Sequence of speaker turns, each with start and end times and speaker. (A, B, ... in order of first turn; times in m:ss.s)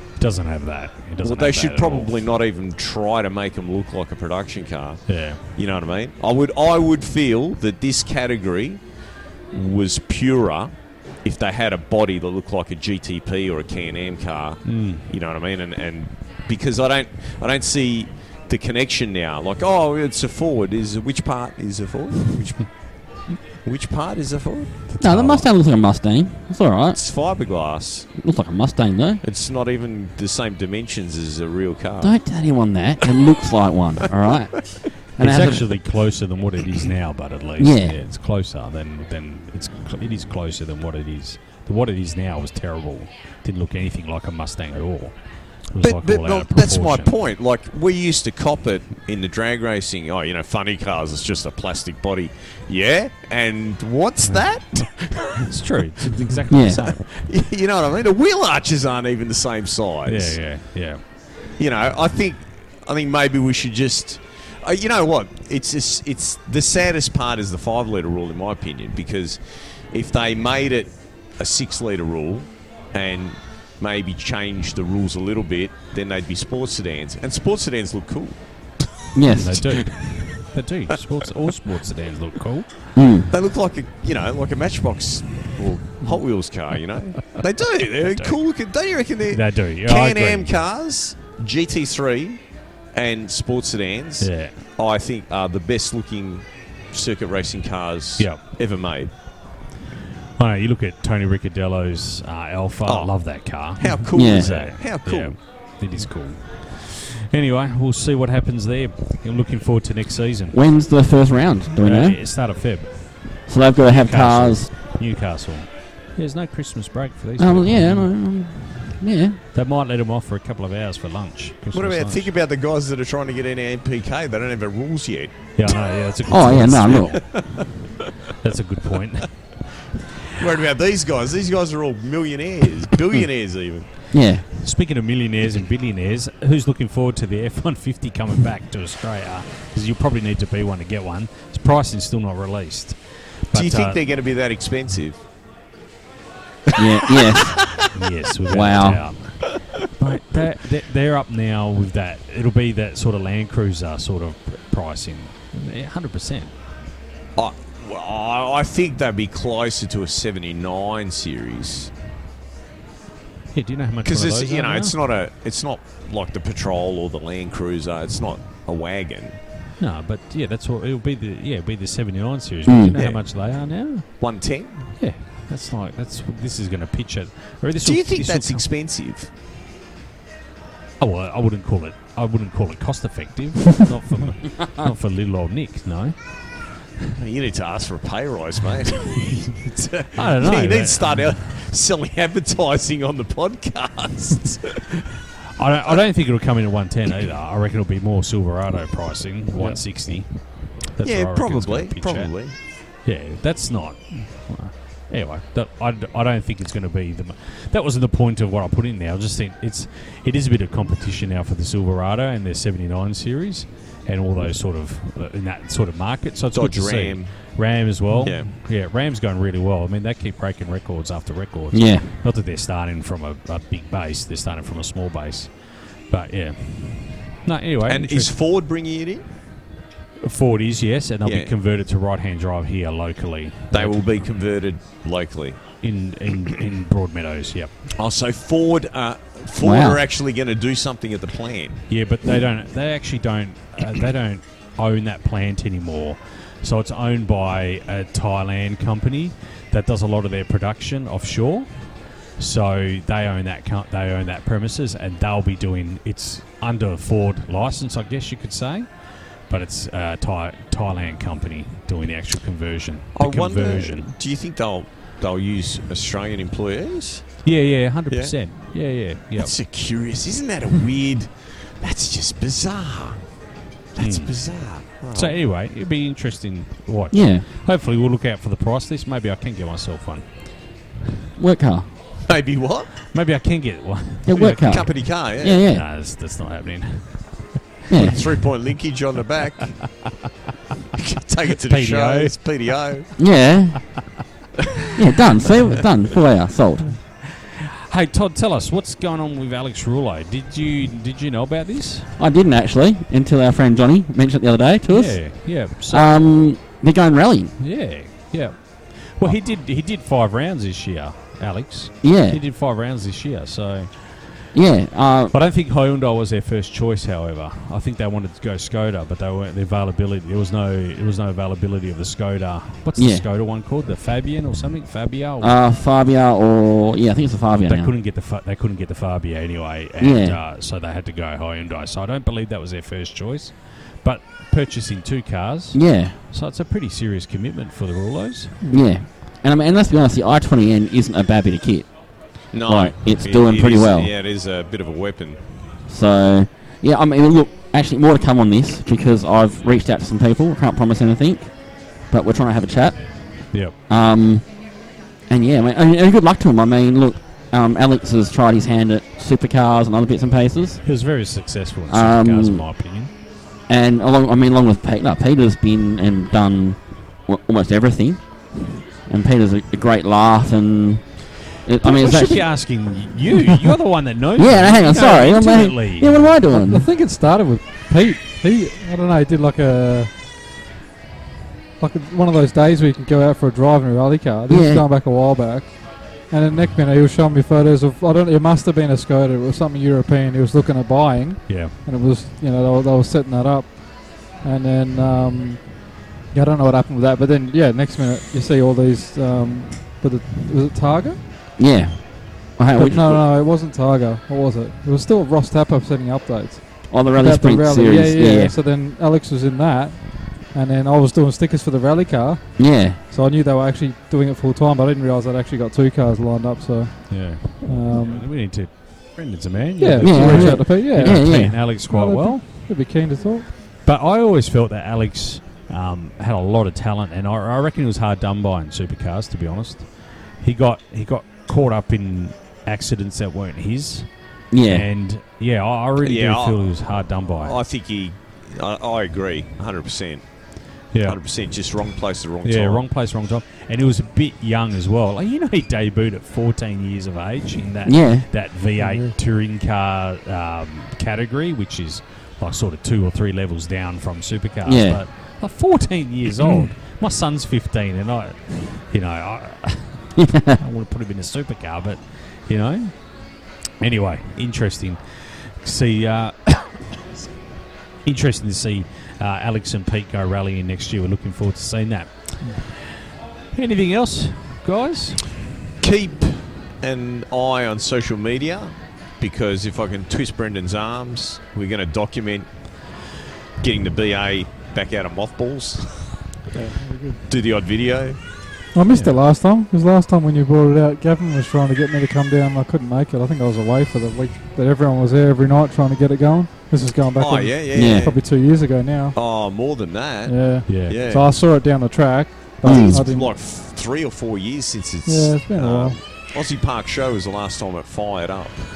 0:00.2-0:02.1 A
0:01.2-0:08.8 B
0:05.1-0:05.4 A
0:09.5-0:10.7 B
0:11.2-0:22.6 B
0:14.6-0:15.1 A
0:23.6-0:24.7 B
0:24.9-0:25.5 A
0:25.0-0:27.0 C
0:26.9-0:28.1 B
0:28.2-0:29.2 C
0:29.2-0:32.1 B
0:32.0-0:35.6 C
0:35.2-0:47.1 A
0:37.6-0:38.0 C
0:45.8-1:00.4 B
0:55.4-0:57.0 A
0:56.5-0:56.8 C
1:00.0-1:01.0 A
1:01.6-1:09.4 B
1:09.9-1:18.4 B
1:19.1-1:19.7 C
1:19.2-1:22.9 A
1:23.0-1:23.3 C
1:23.3-1:32.4 B
1:28.1-1:28.4 A
1:29.3-1:30.6 A
1:32.9-1:39.1 B
1:34.2-1:34.6 A
1:40.4-1:50.6 A
1:42.8-1:45.4 B
1:44.1-1:44.5 C
1:50.5-1:52.2 C
1:51.8-1:53.3 A
1:53.5-1:54.7 C
1:53.9-1:58.1 A
1:57.4-1:59.4 C
1:59.5-2:02.3 A
2:01.7-2:05.7 B
2:05.6-2:07.2 A
2:06.3-2:07.3 C
2:06.9-2:08.1 B
2:08.4-2:09.3 A
2:10.4-2:13.9 B
2:14.1-2:14.4 C
2:14.6-2:24.0 A
2:23.5-2:25.2 B
2:26.7-2:27.6 C
2:26.7-2:27.9 B
2:27.9-2:36.5 A
2:28.5-2:29.0 C
2:37.4-2:41.9 B
2:43.5-2:44.9 A
2:44.0-2:49.4 B
2:49.8-2:54.1 A
2:52.7-2:53.0 C
2:52.9-2:53.3 B
2:54.2-2:54.9 B
2:55.0-2:58.6 A
2:57.8-2:59.3 B
3:01.0-3:06.2 A
3:07.2-3:15.0 B
3:10.1-3:11.5 A
3:15.6-3:22.3 A
3:19.6-3:19.8 D
3:21.0-3:22.6 B
3:23.0-3:48.3 A
3:36.5-3:37.3 B
3:38.1-3:38.4 D
3:38.2-3:38.5 B
3:41.7-3:42.1 C
3:47.9-3:49.2 B
3:50.2-3:54.2 A
3:51.2-3:51.5 B
3:53.7-3:55.6 B
3:55.8-3:57.7 A
3:58.0-4:01.8 B
3:59.6-4:00.0 C
4:01.9-4:24.1 A
4:23.1-4:27.5 B
4:27.4-4:29.5 A
4:28.1-4:28.4 B
4:29.4-4:33.2 B
4:33.9-4:35.3 B
4:34.0-4:34.3 A
4:35.1-4:40.5 A
4:37.1-4:37.5 C
4:41.4-4:41.9 C
4:42.3-4:42.9 B
4:43.1-4:48.2 A
4:44.3-4:45.8 C
4:44.6-4:45.6 B
4:47.9-4:48.2 C
4:47.9-4:49.8 B
4:51.0-4:53.1 B
4:51.6-4:52.4 A
4:53.2-4:53.8 C
4:54.9-4:56.9 C
4:57.2-5:02.1 A
5:02.2-5:07.6 C
5:04.9-5:06.1 A
5:07.6-5:14.3 A
5:12.0-5:12.4 C
5:14.5-5:15.3 C
5:15.3-5:25.6 A
5:23.0-5:23.2 C
5:25.4-5:27.9 C
5:27.6-5:38.6 A
5:30.0-5:30.4 C
5:35.7-5:36.2 C
5:38.7-5:42.1 C
5:42.5-5:45.4 B
5:42.6-5:44.1 C
5:45.9-5:51.5 C
5:52.1-5:53.2 C
5:53.9-5:54.5 C
5:55.3-6:00.8 C
6:00.8-6:03.1 A
6:01.9-6:02.6 C
6:03.7-6:08.2 C
6:09.1-6:11.0 C
6:11.6-6:12.5 C
6:11.8-6:16.3 A
6:14.4-6:16.9 C
6:16.5-6:20.1 D
6:21.8-6:41.2 D
6:24.5-6:24.8 C
6:31.5-6:31.7 A
6:41.6-6:43.2 C
6:42.8-6:58.3 D
6:46.9-6:48.6 C
6:52.6-6:53.0 C
6:57.1-7:02.4 A
6:59.8-7:03.5 D
7:00.0-7:01.7 C
7:03.8-7:17.6 A
7:14.5-7:14.9 C
7:16.0-7:16.8 B
7:17.4-7:20.2 B
7:20.9-7:21.2 A
7:21.0-7:22.8 B
7:22.4-7:43.2 A
7:27.9-7:28.4 C
7:28.8-7:29.1 D
7:34.6-7:35.0 C
7:40.2-7:40.6 C
7:43.8-7:46.8 A
7:48.0-7:52.9 A
7:53.5-7:55.3 A
7:55.8-8:02.5 B
8:03.6-8:06.2 B
8:06.5-8:07.2 D
8:07.3-8:08.2 B
8:08.7-8:19.2 D
8:17.2-8:18.3 B
8:17.7-8:18.1 C
8:19.1-8:21.3 B
8:20.2-8:23.3 D
8:20.6-8:21.0 A
8:22.6-8:28.6 B
8:22.6-8:23.0 C
8:25.0-8:26.0 D